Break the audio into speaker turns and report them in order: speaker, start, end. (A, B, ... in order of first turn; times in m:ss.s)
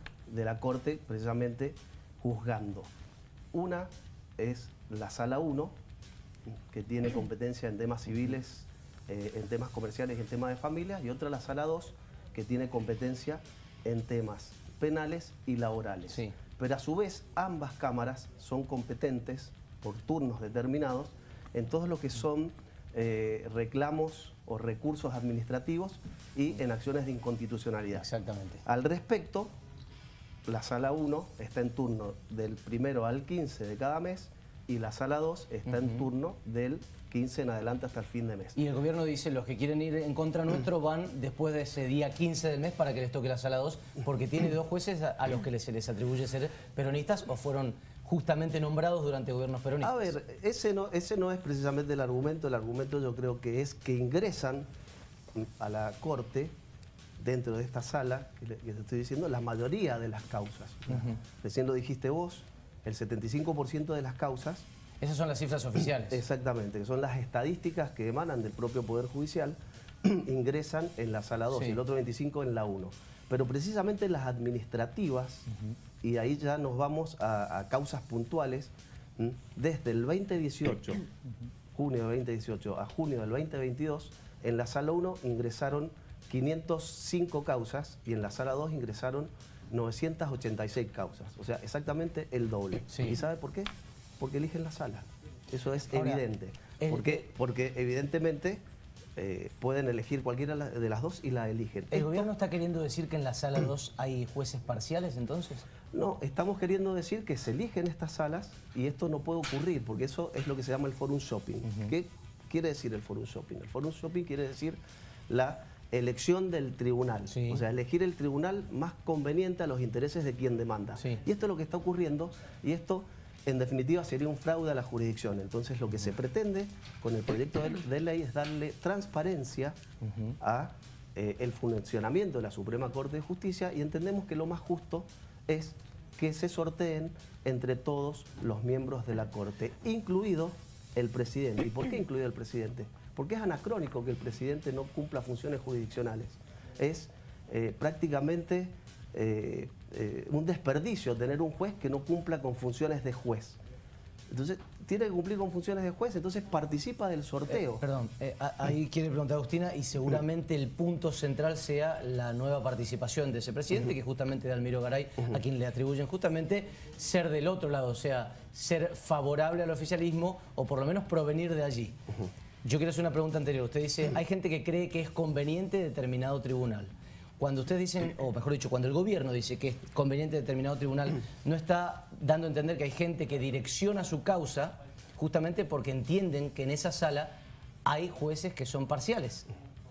0:00.3-0:02.9 A
0:03.5-0:05.7 A
0:06.5-0:28.0 A
0:16.1-0:16.3 B
0:27.9-0:28.6 B
0:28.6-0:29.5 A
0:30.4-0:38.6 A
0:35.7-0:36.0 B
0:38.6-0:50.1 B
0:49.8-0:54.7 A
0:55.3-0:56.5 A
0:57.2-1:04.6 A
1:05.0-1:06.2 B
1:06.1-1:15.4 A
1:11.5-1:11.8 B
1:16.0-1:21.0 A
1:21.7-1:38.6 A
1:35.9-1:36.2 B
1:36.8-1:37.2 B
1:39.2-1:42.3 A
1:41.9-1:45.6 B
1:45.9-1:54.8 A
1:55.3-2:09.8 A
1:57.3-1:57.6 B
2:10.0-2:10.3 B
2:10.4-2:33.6 A
2:34.3-2:37.8 A
2:37.7-2:52.0 B
2:52.6-3:07.3 B
3:07.8-3:09.5 B